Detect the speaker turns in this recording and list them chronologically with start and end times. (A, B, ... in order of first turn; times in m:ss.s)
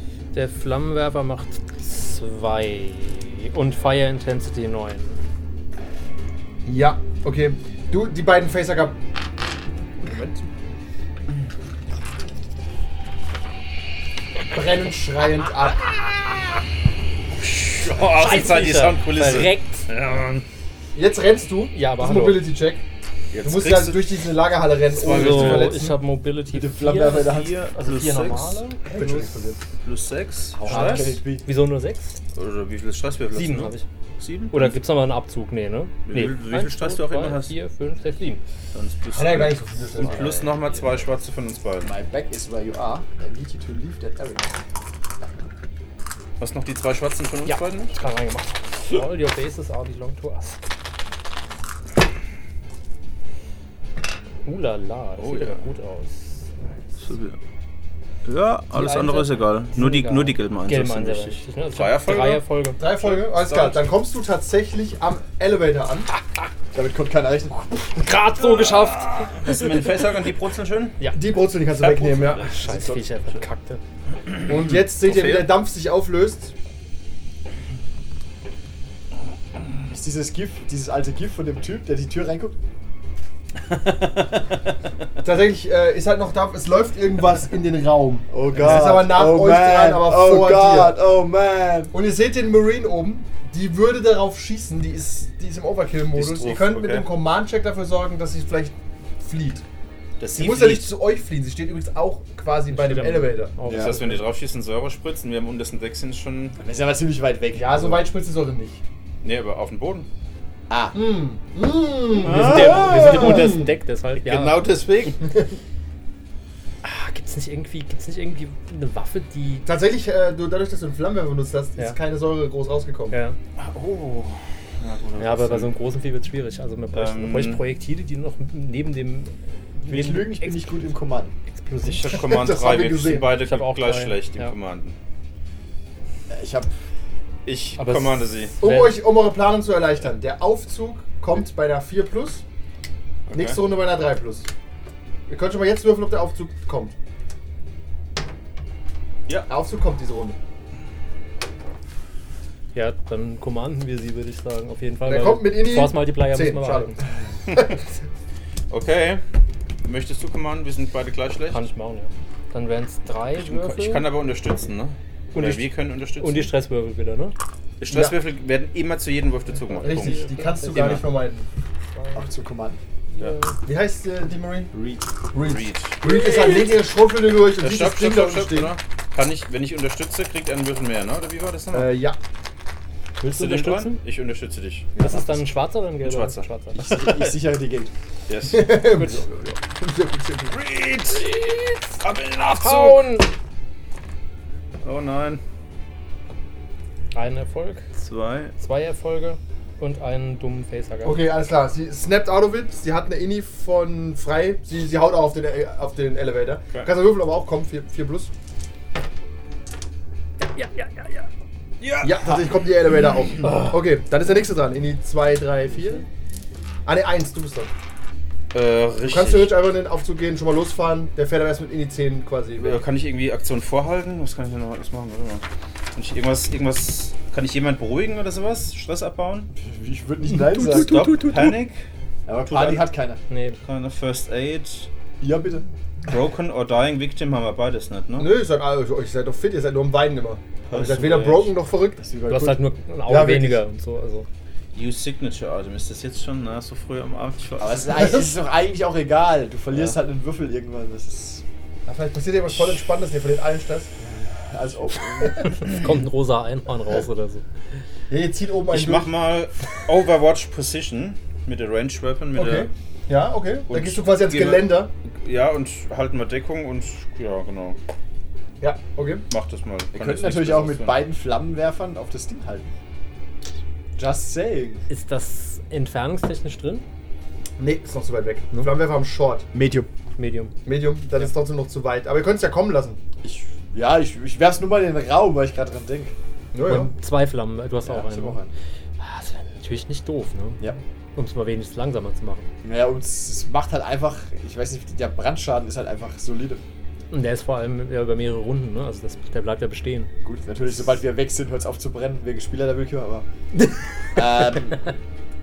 0:00.3-0:05.2 A
0:06.6-0:09.0 B
0:10.0-0:10.4 B
0:14.5-0:15.9 B
0:17.3-0:20.4 C
0:17.9-0:19.9 A
0:20.9-0:22.8 B
0:21.7-0:22.5 A
0:23.3-0:24.1 C
0:23.4-0:25.9 B
0:24.9-0:25.9 C
0:25.0-0:29.3 A
0:26.5-0:27.6 D
0:27.1-0:28.6 C
0:28.9-0:29.6 B
0:29.8-0:31.2 C
0:30.5-0:31.4 D
0:30.7-0:32.2 A
0:32.4-0:34.8 C
0:33.3-0:33.9 A
0:34.5-0:38.4 A
0:36.1-0:37.5 C
0:38.7-0:41.9 C
0:39.1-0:40.3 B
0:41.8-0:44.6 D
0:46.4-0:47.9 C
0:47.4-0:50.6 A
0:54.4-0:56.8 A
0:55.2-0:55.6 C
0:57.0-0:57.4 C
0:58.2-1:02.4 C
0:58.7-1:02.8 A
1:02.8-1:06.1 B
1:03.0-1:03.8 C
1:06.7-1:08.1 D
1:08.0-1:10.0 A
1:08.6-1:11.0 C
1:11.1-1:12.5 B
1:11.8-1:12.4 C
1:12.4-1:13.8 A
1:12.6-1:13.1 D
1:14.3-1:15.6 C
1:14.5-1:16.5 B
1:19.9-1:22.6 D
1:23.6-1:24.7 C
1:25.2-1:31.0 B
1:28.3-1:31.9 D
1:31.9-1:39.6 B
1:36.1-1:37.1 C
1:40.2-1:40.9 C
1:40.4-1:43.6 B
1:42.7-1:44.2 A
1:43.6-1:44.0 D
1:43.6-1:46.6 C
1:46.6-1:48.1 D
1:47.6-1:48.8 B
1:49.2-1:50.1 C
1:50.7-1:51.0 D
1:50.9-1:53.7 B
1:52.2-1:53.6 C
1:52.3-1:54.6 A
1:54.2-1:55.2 C
1:55.2-1:55.6 B
1:56.8-1:59.7 A
1:59.6-2:03.2 B
2:03.1-2:03.4 A
2:03.6-2:05.7 C
2:05.2-2:10.7 A
2:06.9-2:07.6 C
2:09.8-2:11.3 D
2:09.9-2:10.3 C
2:11.5-2:12.3 A
2:11.8-2:15.0 C
2:12.2-2:13.3 B
2:13.3-2:14.6 A
2:16.3-2:16.7 D
2:17.5-2:18.5 C
2:17.8-2:19.0 A
2:18.6-2:22.4 B
2:23.3-2:23.6 C
2:23.3-2:24.5 B
2:25.3-2:26.9 B
2:29.5-2:30.4 B
2:32.7-2:37.0 A
2:35.1-2:37.8 B
2:38.7-2:39.2 C
2:39.8-2:41.7 C
2:41.5-2:44.1 A
2:43.4-2:46.5 C
2:45.3-2:47.4 A
2:47.8-2:51.1 C
2:47.9-2:48.2 B
2:49.8-2:51.5 B
2:49.8-2:51.1 A
2:52.0-2:52.3 A
2:52.1-2:52.8 D
2:53.1-2:53.6 A
2:53.6-2:54.7 B
2:54.7-2:56.0 C
2:55.3-2:58.8 B
2:56.0-2:56.7 A
2:57.6-3:01.9 C
3:01.7-3:02.2 B
3:03.2-3:04.0 A
3:03.3-3:04.9 C
3:05.0-3:05.3 D
3:05.0-3:06.8 A
3:06.0-3:07.4 C
3:06.8-3:07.9 D
3:08.3-3:09.1 C
3:08.5-3:10.6 B
3:10.5-3:11.3 C
3:11.1-3:12.0 A
3:12.0-3:13.1 C
3:12.5-3:13.3 A
3:14.8-3:15.4 C
3:17.1-3:17.9 A
3:18.0-3:18.5 C
3:18.6-3:21.2 A
3:21.0-3:28.3 B
3:30.5-3:31.3 A
3:31.8-3:32.5 C
3:32.0-3:36.1 B
3:36.9-3:37.7 B
3:38.5-3:39.5 C
3:39.1-3:42.8 B
3:42.6-3:49.5 C
3:49.6-3:51.6 D
3:50.6-3:51.8 C
3:52.3-3:53.2 D
3:52.5-3:52.9 C
3:53.3-3:53.6 A
3:53.6-3:54.9 C
3:55.2-3:55.7 D
3:56.1-3:58.3 C
3:58.2-4:02.0 B
4:00.7-4:01.5 C
4:02.0-4:02.6 D
4:02.3-4:04.3 A
4:03.1-4:03.6 B
4:04.7-4:07.9 C
4:07.6-4:11.4 D
4:07.9-4:08.3 B
4:09.7-4:10.0 C
4:11.9-4:13.9 B
4:14.0-4:15.8 D
4:15.4-4:17.4 A
4:18.1-4:19.1 B
4:18.7-4:22.7 C
4:22.4-4:24.9 B
4:23.7-4:27.8 C
4:28.6-4:29.3 B
4:29.3-4:31.0 C
4:29.9-4:32.7 D
4:34.0-4:34.8 D
4:34.9-4:36.9 A
4:37.6-4:39.5 B
4:39.5-4:39.9 D
4:40.2-4:40.5 A
4:40.6-4:43.0 B
4:43.2-4:46.1 D
4:46.5-4:46.9 B
4:46.6-4:48.4 A
4:47.8-4:48.5 D
4:49.0-4:50.6 A
4:51.2-4:52.5 A
4:52.6-4:56.6 D
4:57.1-5:00.1 A
5:00.2-5:03.3 D
5:04.1-5:04.9 D